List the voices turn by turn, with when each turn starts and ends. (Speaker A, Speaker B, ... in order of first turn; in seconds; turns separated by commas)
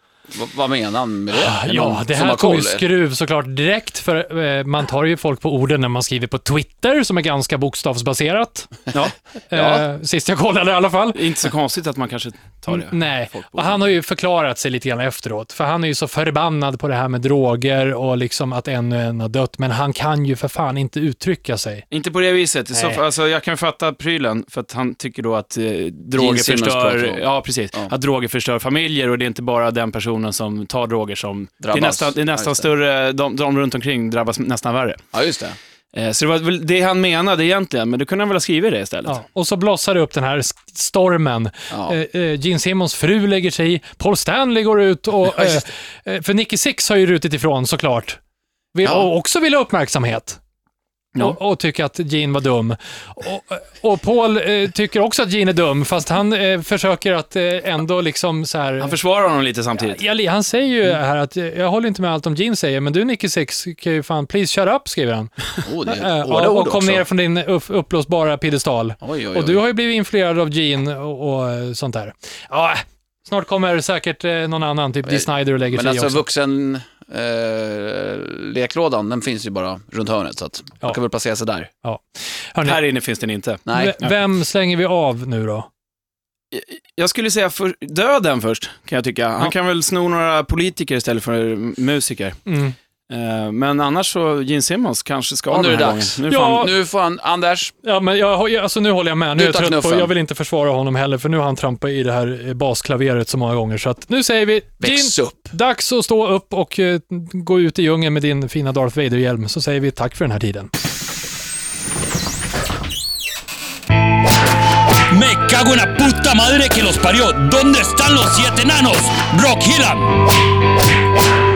Speaker A: 0.3-2.9, Speaker B: 1.3-8.8, Speaker C: 8.9-9.8, Speaker B: 9.5-11.3, Speaker C: 11.1-13.8, Speaker B: 12.7-21.9, Speaker C: 21.9-35.0, Speaker B: 22.7-23.0, Speaker A: 26.2-27.9, Speaker A: 31.6-32.7, Speaker A: 35.1-35.6, Speaker C: 35.9-39.2, Speaker B: 39.1-48.2, Speaker A: 41.7-42.0, Speaker A: 45.4-45.6, Speaker B: 48.7-50.4, Speaker A: 48.8-49.1, Speaker C: 51.1-51.4, Speaker B: 51.2-59.0, Speaker C: 58.8-60.0, Speaker B: 59.8-76.2, Speaker A: 65.6-67.0, Speaker A: 69.0-69.6, Speaker A: 75.1-81.7, Speaker B: 81.8-82.8, Speaker C: 82.7-84.1, Speaker A: 83.7-84.0, Speaker B: 83.7-85.7, Speaker C: 86.5-92.4, Speaker B: 92.5-92.8, Speaker C: 93.1-96.7, Speaker A: 95.5-97.7, Speaker B: 96.3-96.7, Speaker B: 97.8-110.7, Speaker A: 99.4-100.1, Speaker A: 104.8-105.5, Speaker D: 115.1-120.2